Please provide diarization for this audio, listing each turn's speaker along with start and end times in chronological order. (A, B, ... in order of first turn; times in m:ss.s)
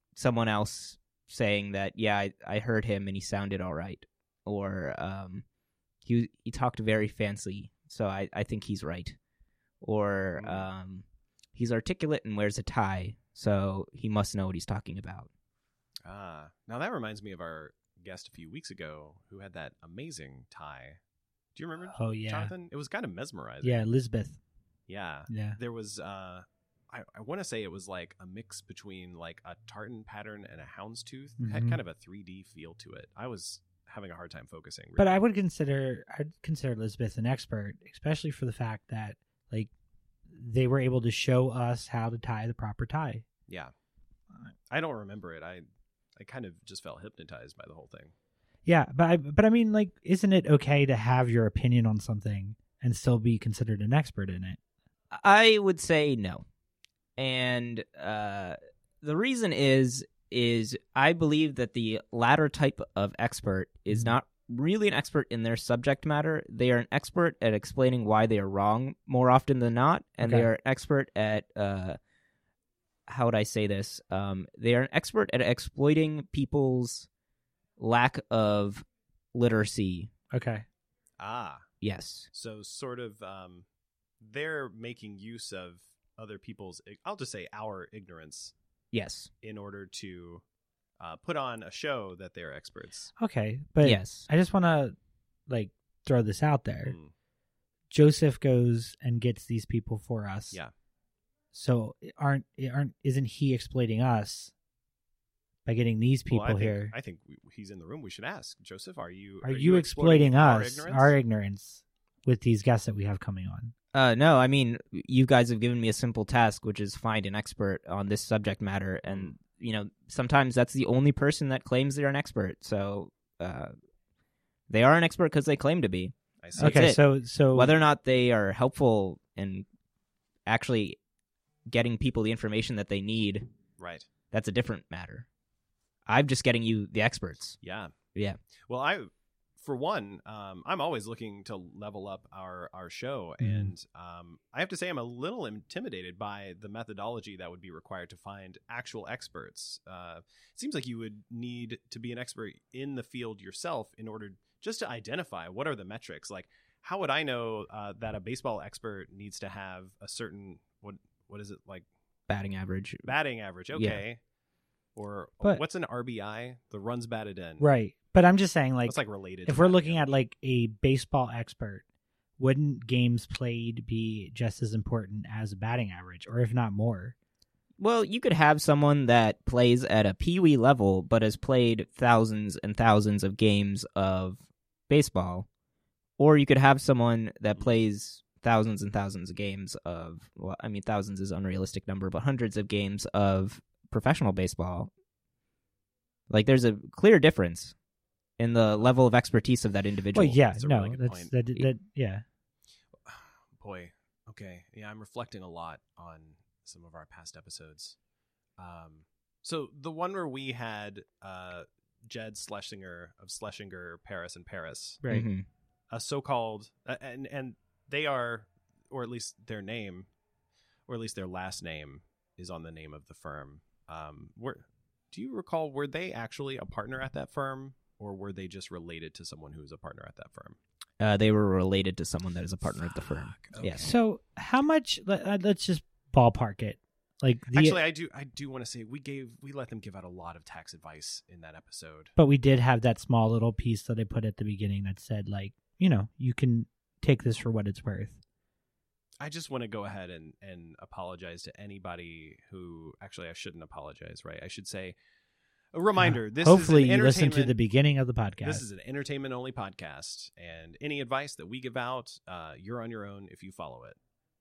0:00.2-0:05.4 A
0:06.0-0:09.2 A
0:09.8-0:15.3 A
0:10.4-0:10.7 B
0:16.0-0:21.0 B
0:21.6-0:23.8 B
0:22.0-0:22.5 C
0:23.6-0:24.4 C
0:24.9-0:35.2 B
0:25.3-0:25.6 C
0:31.4-0:31.8 C
0:35.0-0:39.7 C
0:40.3-0:43.2 C
0:43.5-0:43.7 B
0:44.7-0:45.6 B
0:46.2-0:48.1 B
0:48.7-0:54.6 C
0:55.1-0:56.4 A
0:57.2-1:12.0 A
1:10.2-1:10.5 C
1:13.1-1:17.1 A
1:17.8-1:20.1 A
1:20.3-1:20.6 C
1:21.2-1:21.7 B
1:21.8-1:22.3 A
1:22.3-1:23.7 B
1:24.2-1:28.5 B
1:28.9-1:29.3 A
1:29.4-1:30.4 B
1:31.0-1:33.1 B
1:33.2-1:35.0 C
1:33.8-1:34.3 A
1:35.5-1:37.0 C
1:36.8-1:37.1 B
1:37.9-1:40.6 C
1:41.5-1:44.5 C
1:45.7-1:46.9 C
1:46.3-1:51.2 B
1:49.4-1:53.7 C
1:53.9-2:03.7 A
1:59.1-1:59.3 B
2:04.7-2:07.0 A
2:06.4-2:07.0 B
2:06.6-2:07.7 C
2:07.5-2:09.6 A
2:10.5-2:11.0 A
2:11.7-2:13.5 A
2:13.8-2:14.1 B
2:14.3-2:15.3 A
2:16.1-2:17.6 A
2:17.6-2:18.0 B
2:18.7-2:41.9 B
2:23.4-2:23.7 C
2:42.3-2:43.2 A
2:43.0-2:44.2 B
2:43.7-2:44.0 A
2:45.0-2:47.7 B
2:47.6-2:51.8 C
2:48.9-2:50.0 B
2:52.4-2:57.2 C
2:57.8-3:05.5 A
3:06.2-3:14.9 A
3:16.3-3:17.8 A
3:18.4-3:20.4 A
3:20.1-3:22.2 C
3:20.5-3:21.3 B
3:23.0-3:28.0 B
3:28.6-3:35.0 B
3:35.0-3:35.3 C
3:35.1-3:35.5 A
3:35.9-3:40.1 B
3:40.9-3:50.6 B
3:51.0-3:53.9 A
3:52.6-3:53.9 B
3:53.8-3:57.8 C
3:57.5-4:02.1 B
4:02.2-4:08.2 C
4:09.2-4:15.0 B
4:15.7-4:17.6 B
4:16.0-4:18.6 C
4:18.4-4:24.0 B